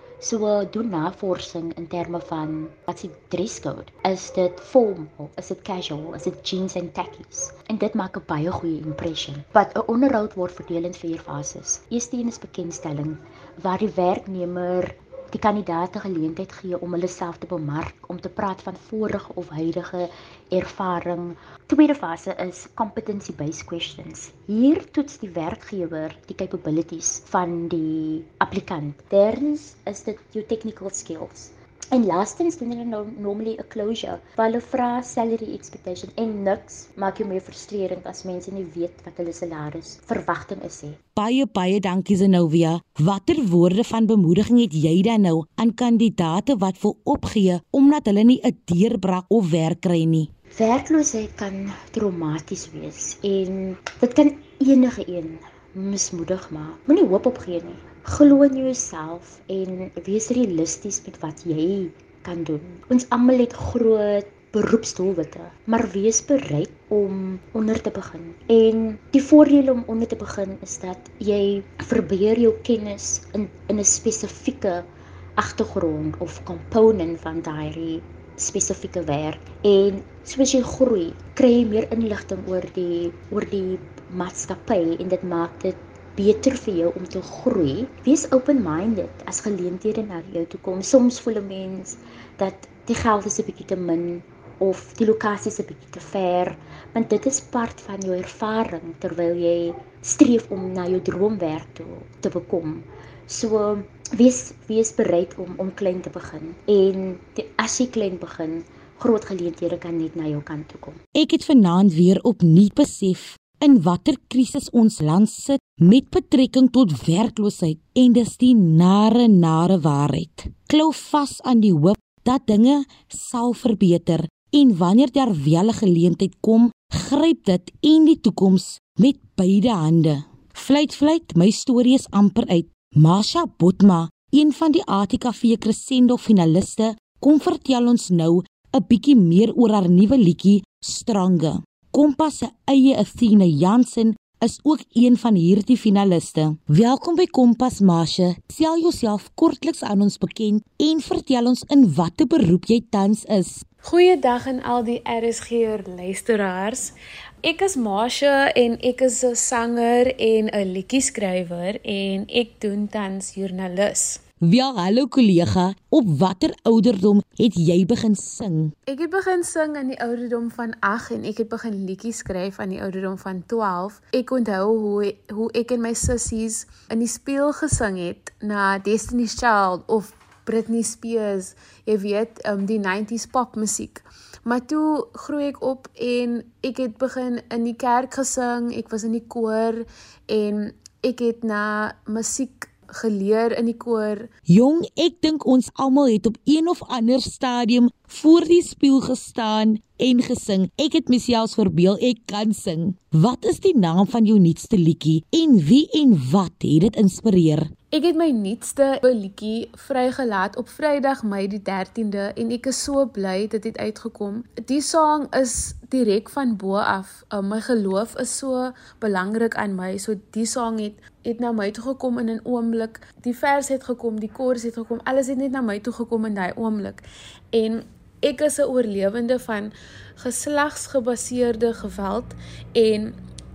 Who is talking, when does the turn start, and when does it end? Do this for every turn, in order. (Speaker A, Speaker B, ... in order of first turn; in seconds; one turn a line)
Speaker A: 0.2-41.0
Speaker B: 41.1-50.3
Speaker A: 50.5-74.9
Speaker A: 75.4-111.0
Speaker B: 111.2-153.6
Speaker C: 153.8-156.9
Speaker C: 157.4-164.2
Speaker B: 164.4-168.7
Speaker C: 168.9-194.3
Speaker B: 194.5-207.7
Speaker C: 207.9-233.2